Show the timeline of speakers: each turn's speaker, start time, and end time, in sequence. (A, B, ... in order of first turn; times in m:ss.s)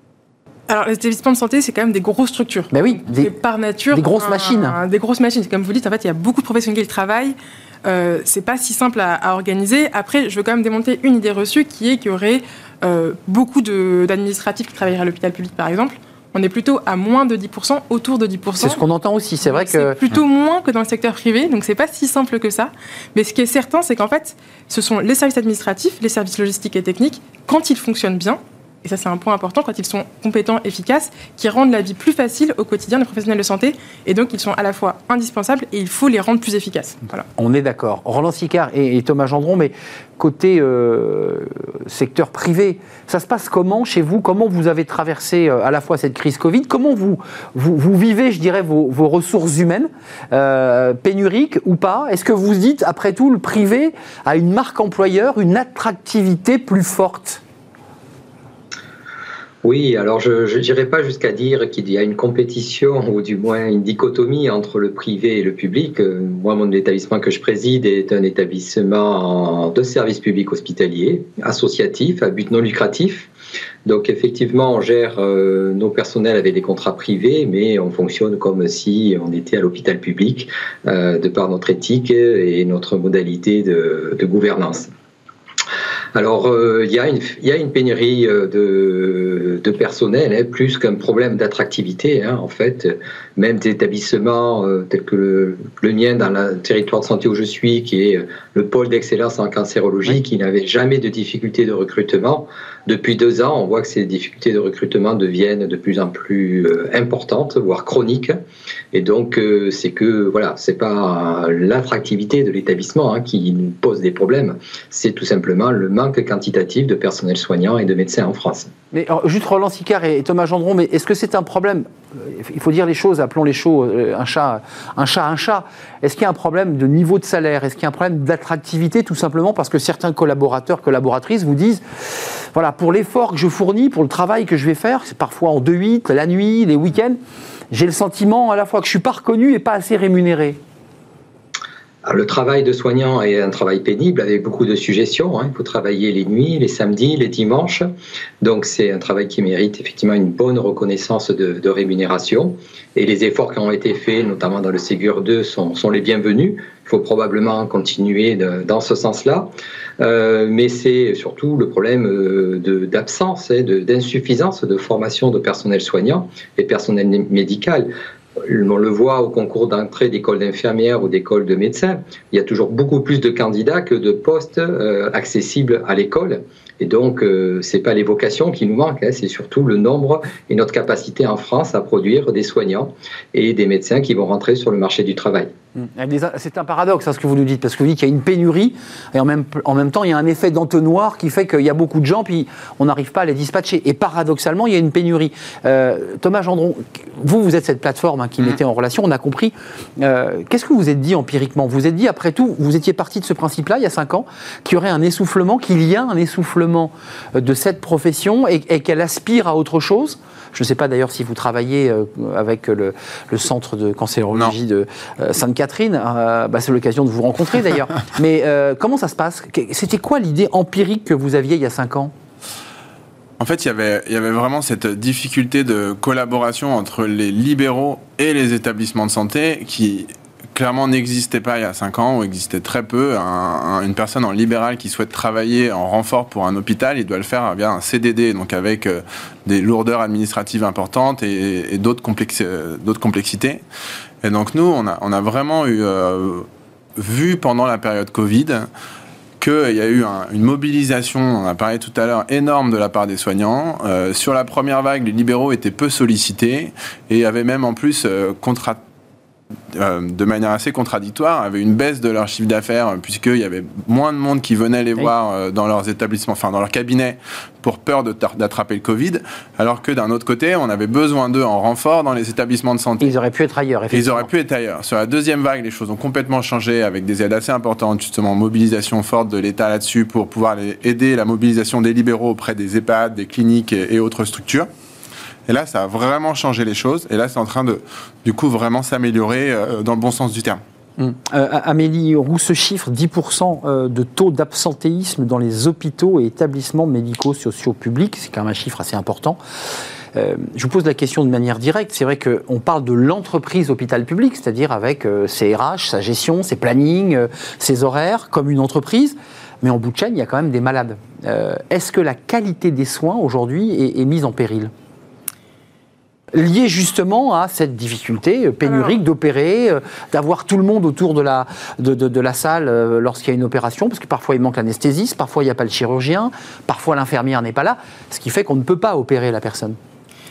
0:00.7-0:18.8 A
0:02.7-0:03.3 B
0:03.9-0:04.8 B
0:18.6-0:20.0 B
0:19.4-0:37.2 A
0:37.4-0:57.4 B
0:59.6-1:13.3 C
1:13.8-1:24.9 C
1:26.2-1:48.4 C
1:48.9-1:58.7 C
1:58.9-2:11.8 B
2:12.5-2:17.2 B
2:17.7-2:20.6 B
2:22.0-2:27.9 C
2:28.4-3:05.5 C
3:05.8-3:42.1 B
3:43.4-4:03.6 D
4:04.2-4:08.7 D
4:09.4-4:18.8 D
4:19.7-4:33.1 D
4:33.0-4:34.3 B
4:33.9-4:44.7 D
4:45.5-4:50.6 D
4:51.0-4:59.4 B
5:00.1-5:14.7 B
5:16.3-5:29.8 B
5:18.6-5:19.0 A